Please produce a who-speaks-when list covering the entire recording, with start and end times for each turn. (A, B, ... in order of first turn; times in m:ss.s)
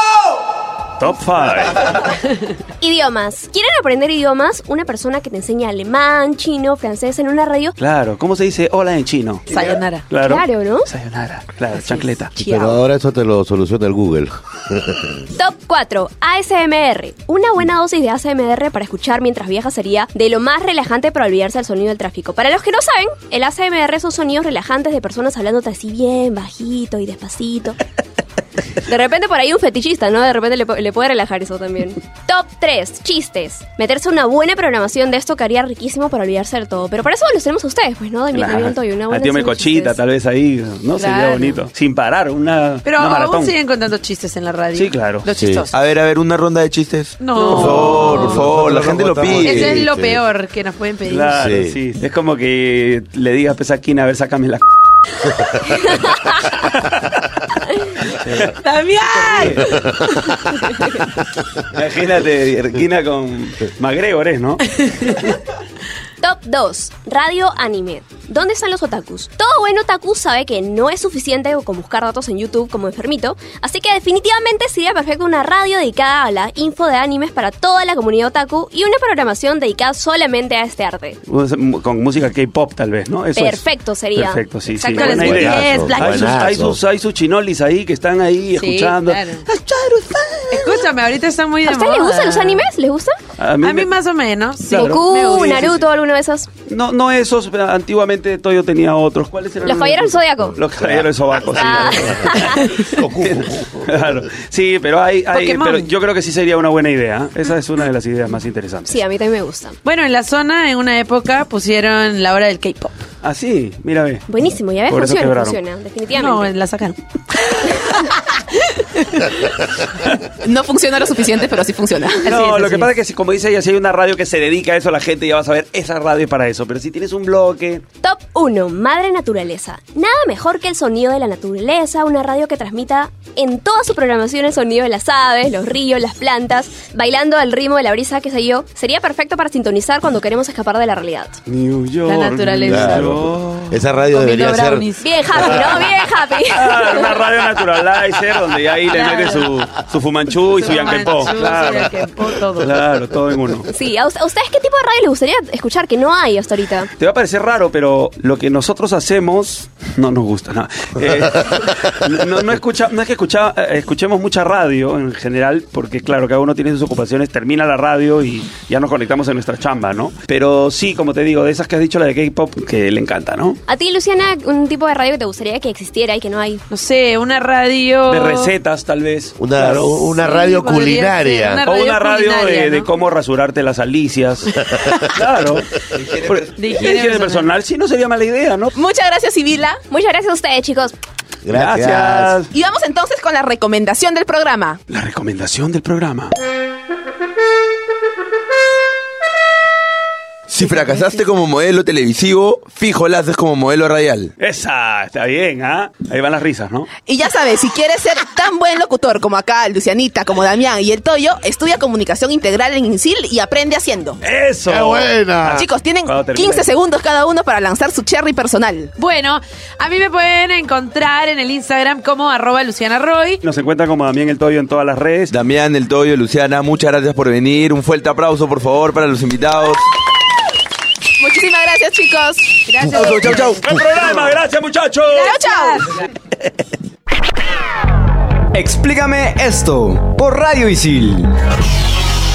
0:01.0-0:02.0 A
0:02.0-0:02.5 B
0:02.8-0:07.7 C
0:07.8-0:12.3 A
0:09.5-0:10.1 B
0:10.2-0:10.9 C
0:11.7-0:12.8 B
0:12.4-0:15.2 D
0:15.4-0:27.8 C
0:28.9-0:40.0 C
0:38.3-0:43.6 A
0:41.0-0:41.5 B
0:42.9-0:45.7 B
0:44.8-0:45.2 A
0:45.3-0:45.6 D
0:45.7-0:49.8 E
0:47.2-0:48.3 B
0:47.6-0:49.6 A
0:47.6-0:50.2 D
0:49.3-0:51.4 B
0:51.1-0:54.6 A
0:51.3-0:51.8 D
0:56.5-0:57.2 A
0:58.0-0:58.5 A
0:58.6-0:59.9 B
0:59.1-0:59.8 A
0:59.8-1:00.3 D
1:01.7-1:05.4 A
1:04.8-1:05.2 B
1:06.2-1:21.2 C
1:21.3-1:30.7 A
1:23.3-1:25.6 C
1:24.9-1:26.4 B
1:25.1-1:26.8 D
1:28.6-1:29.4 B
1:30.5-1:32.6 B
1:31.6-1:33.2 C
1:33.4-1:33.9 A
1:33.6-1:35.8 B
1:34.6-1:36.5 C
1:34.7-1:35.7 A
1:36.7-1:48.9 A
1:39.6-1:40.6 C
1:40.6-1:44.3 D
1:41.6-1:42.7 C
1:42.4-1:42.8 B
1:45.3-1:45.9 B
1:48.8-1:49.8 C
1:49.8-1:52.9 B
1:53.2-1:54.3 A
1:54.3-1:56.5 C
1:54.9-1:55.6 A
1:56.1-1:59.6 B
2:00.4-2:02.3 F
2:02.2-2:02.9 B
2:02.2-2:07.8 A
2:08.0-2:21.4 C
2:21.5-2:23.8 A
2:22.1-2:23.1 B
2:22.7-2:24.9 D
2:24.1-2:25.6 B
2:25.0-2:27.1 C
2:25.4-2:25.9 A
2:26.5-2:32.0 A
2:28.9-2:29.5 B
2:30.5-2:32.7 B
2:32.6-2:33.7 A
2:33.7-2:36.9 C
2:37.0-2:53.6 A
2:53.7-2:56.6 C
2:56.7-2:58.5 B
2:58.1-2:59.8 A
2:59.4-3:01.6 D
2:59.7-3:02.9 B
3:01.6-3:08.8 A
3:06.0-3:06.5 E
3:06.6-3:07.5 B
3:08.8-3:09.8 F
3:09.9-3:10.9 C
3:11.4-3:12.4 D
3:11.5-3:12.5 A
3:12.5-3:14.8 F
3:14.9-3:16.3 A
3:20.5-3:24.3 E
3:24.4-3:26.9 A
3:27.1-3:34.2 F
3:34.2-3:36.7 A
3:34.7-3:35.7 D
3:35.4-3:38.9 F
3:39.0-3:43.4 B
3:43.4-3:45.3 A
3:45.3-3:49.8 E
3:51.2-3:52.6 F
3:52.7-3:53.6 B
3:52.9-3:53.6 E
3:53.6-3:55.4 A
3:55.1-3:56.0 B
3:55.1-3:55.9 F
3:58.5-4:01.3 G